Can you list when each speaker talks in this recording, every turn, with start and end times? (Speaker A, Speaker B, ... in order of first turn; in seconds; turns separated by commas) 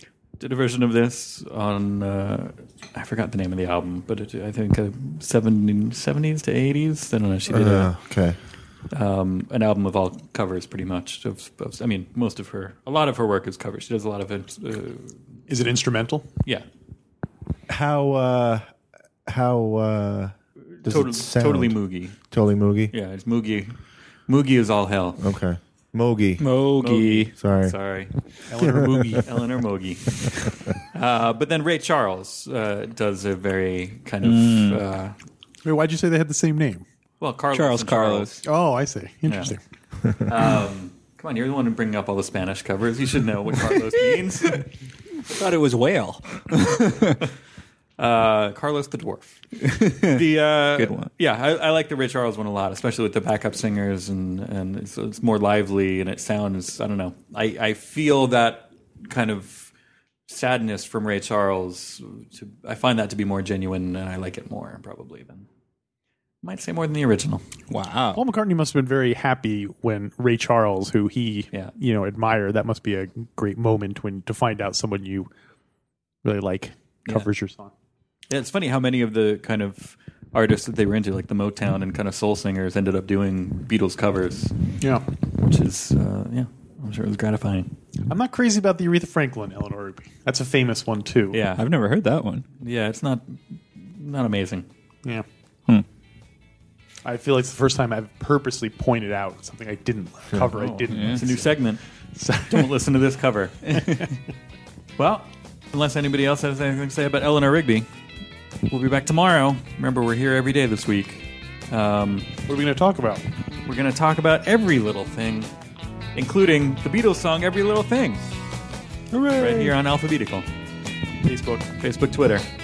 Speaker A: 0.4-8.0, Speaker B: 7.5-8.4, Speaker A: 8.9-15.2, Speaker C: 15.5-16.3, Speaker B: 17.7-18.6, Speaker B: 19.3-21.8, Speaker A: 20.8-22.1, Speaker B: 22.3-22.9, Speaker A: 22.9-23.8, Speaker A: 24.3-25.2, Speaker B: 25.2-26.5, Speaker D: 26.4-27.3, Speaker A: 26.8-28.1, Speaker B: 27.4-27.7, Speaker C: 28.5-29.3, Speaker B: 28.6-29.2, Speaker A: 28.6-35.1, Speaker D: 34.2-34.8, Speaker C: 35.6-36.8, Speaker A: 37.2-38.3, Speaker D: 37.5-38.4, Speaker C: 38.4-39.6, Speaker A: 39.2-39.5, Speaker A: 40.2-44.7, Speaker D: 45.3-47.2, Speaker A: 48.0-59.7, Speaker D: 49.6-51.1, Speaker A: 60.3-65.5, Speaker A: 66.4-67.4, Speaker D: 67.7-68.2, Speaker C: 68.1-75.3, Speaker C: 76.2-77.7, Speaker A: 78.3-84.6, Speaker C: 84.8-85.1, Speaker A: 85.3-87.7, Speaker C: 88.1-91.4, Speaker A: 91.3-91.6, Speaker D: 91.5-92.4, Speaker A: 92.6-94.7, Speaker C: 97.0-101.5, Speaker A: 100.5-101.8, Speaker D: 100.9-101.2, Speaker C: 102.2-102.7, Speaker A: 102.4-104.0, Speaker A: 105.0-107.9, Speaker A: 108.7-112.3, Speaker C: 112.5-113.2, Speaker A: 113.6-115.5, Speaker A: 116.1-118.2, Speaker D: 119.1-119.8, Speaker A: 119.3-120.5, Speaker C: 121.2-121.7, Speaker A: 121.8-122.5